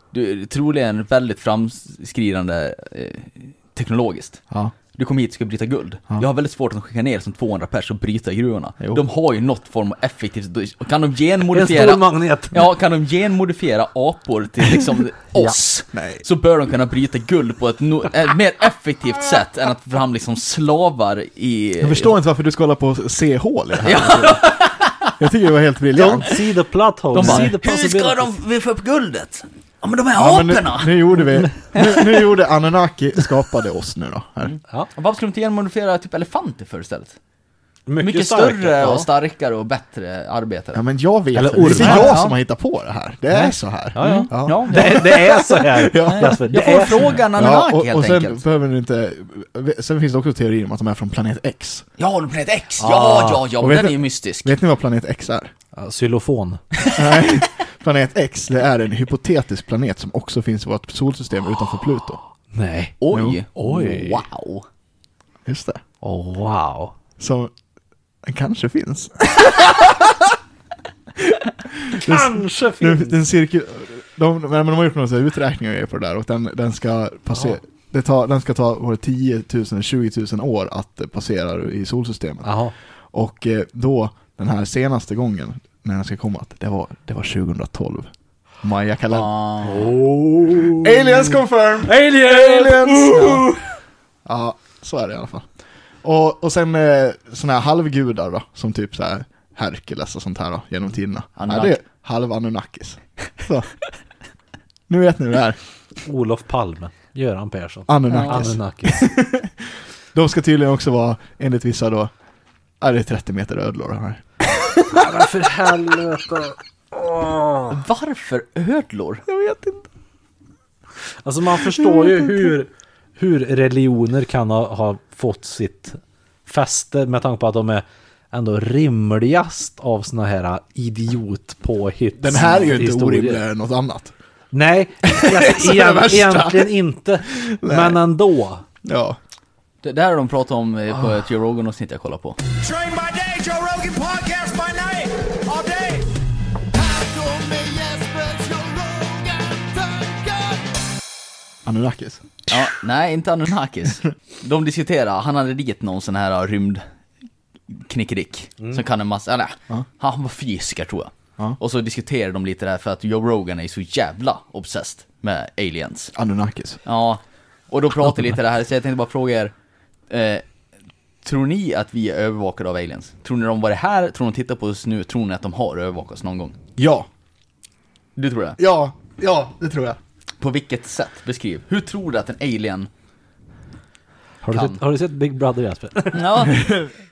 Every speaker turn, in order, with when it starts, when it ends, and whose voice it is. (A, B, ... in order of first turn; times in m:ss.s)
0:00.1-0:04.4 A
0:04.9-0:22.1 A
0:11.5-0:12.7 B
0:15.9-0:16.2 C
0:21.8-0:24.5 C
0:23.8-0:25.1 A
0:25.2-0:26.4 C
0:25.9-0:28.3 B
0:27.1-0:31.2 A
0:27.2-0:27.5 C
0:30.2-0:34.5 C
0:31.7-0:32.0 A
0:34.4-0:37.2 A
0:37.9-0:39.1 B
0:38.0-0:40.8 A
0:40.7-0:46.4 C
0:41.3-0:42.2 B
0:41.6-0:42.3 A
0:43.3-0:47.2 B
0:44.0-0:48.4 A
0:47.3-0:51.8 C
0:52.0-0:54.5 A
0:52.8-0:53.4 B
0:53.6-0:55.5 C
0:55.7-0:56.6 B
0:56.9-1:02.2 C
1:02.5-1:04.2 B
1:03.0-1:04.6 A
1:03.1-1:03.4 C
1:05.4-1:05.8 C
1:06.0-1:06.9 B
1:07.2-1:07.5 C
1:08.2-1:10.4 C
1:11.7-1:22.5 C
1:11.9-1:13.2 B
1:22.4-1:22.7 B
1:23.1-1:28.1 C
1:28.6-1:29.3 C
1:29.1-1:29.9 A
1:29.6-1:31.3 B
1:30.8-1:33.4 C
1:31.8-1:33.6 B
1:34.2-1:35.4 C
1:36.0-1:43.7 C
1:41.4-1:41.8 A
1:44.9-1:45.6 C
1:46.0-1:49.1 B
1:47.9-1:49.5 C
1:48.1-1:48.5 A
1:50.1-1:52.1 C
1:52.8-1:54.2 C
1:54.9-1:57.7 B
1:57.7-1:59.2 A
1:59.3-1:59.8 C
2:01.2-2:13.4 B
2:12.2-2:14.1 C
2:14.5-2:18.6 B
2:15.0-2:16.7 C
2:17.3-2:18.0 C
2:18.8-2:19.2 C
2:19.8-2:22.4 A
2:22.5-2:26.1 D
2:26.7-2:30.7 D
2:31.6-2:32.3 C
2:32.5-2:36.8 A
2:37.7-2:46.1 A
2:46.1-2:46.8 C
2:46.8-2:49.5 A
2:50.1-2:50.4 A
2:51.2-2:56.6 A
2:56.8-2:57.1 C
2:58.2-2:58.6 A
2:58.6-3:00.0 C
3:00.4-3:02.9 A
3:04.4-3:06.5 B
3:04.5-3:04.8 A
3:06.1-3:06.7 A
3:06.5-3:06.9 C